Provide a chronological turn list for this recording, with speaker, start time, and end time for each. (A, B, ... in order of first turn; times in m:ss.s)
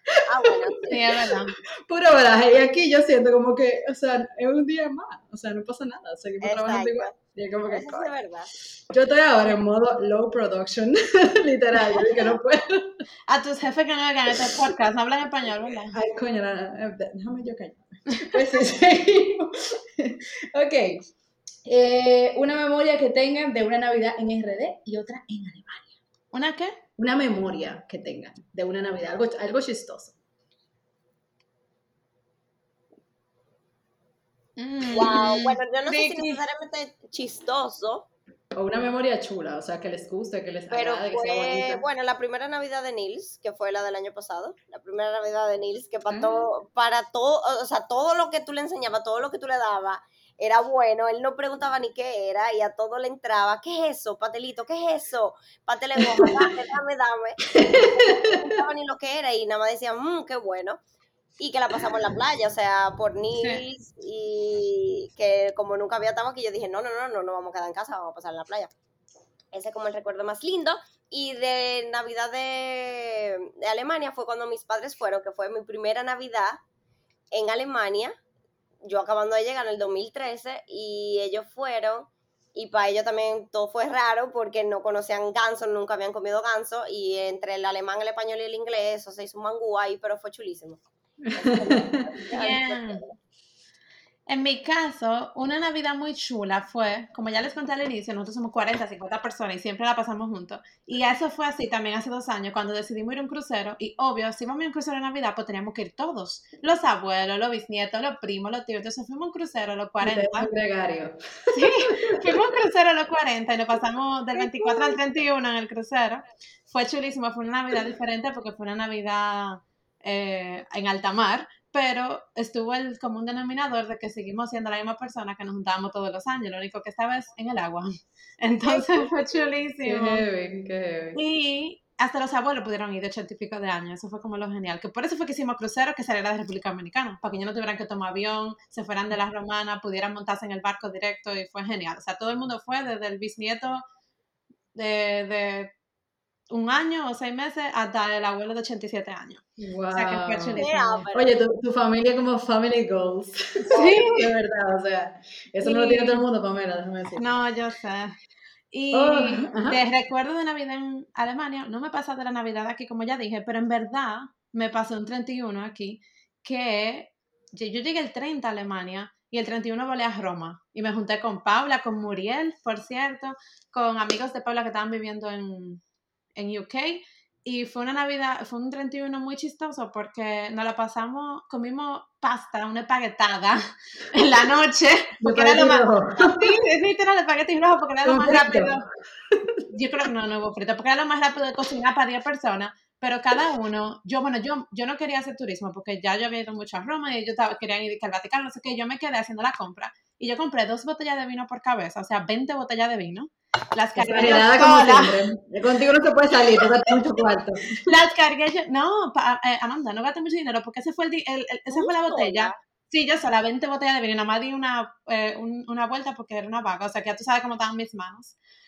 0:00.1-0:08.1 A
0:00.3-0:01.0 B
0:00.9-0:01.5 C
0:06.4-0:07.1 B
0:07.7-0:08.5 B
0:08.9-0:13.0 A
0:13.3-0:16.0 C
0:15.9-0:21.0 A
0:18.1-0:18.4 C
0:21.6-0:26.0 A
0:26.3-0:26.7 C
0:27.0-0:30.2 A
0:34.6-0:36.4 C
0:34.9-0:38.1 B
0:38.5-0:41.8 A
0:40.7-1:00.8 B
0:57.6-0:58.4 A
1:01.4-1:08.7 B
1:03.4-1:03.6 C
1:09.5-1:16.6 B
1:17.3-1:18.2 B
1:18.8-1:30.8 B
1:31.2-1:32.1 A
1:31.3-1:33.2 B
1:32.3-1:33.0 C
1:34.3-1:50.5 C
1:50.0-1:52.5 A
1:51.5-2:10.2 C
1:54.4-1:55.0 A
2:08.6-2:09.4 B
2:09.8-2:11.2 A
2:11.1-2:23.8 C
2:24.7-2:25.7 C
2:26.5-2:31.0 C
2:29.6-2:37.3 A
2:30.6-2:31.3 B
2:33.7-2:34.0 B
2:33.7-2:34.3 C
2:35.6-2:36.2 C
2:37.2-2:38.1 C
2:38.7-2:55.8 C
2:38.9-2:39.8 A
2:56.4-3:03.6 C
3:04.1-3:08.8 C
3:05.2-3:06.5 A
3:08.0-3:08.8 A
3:09.3-3:09.6 A
3:09.7-3:25.2 C
3:23.9-3:27.9 A
3:26.5-3:26.9 C
3:27.8-3:38.3 C
3:31.7-3:32.6 B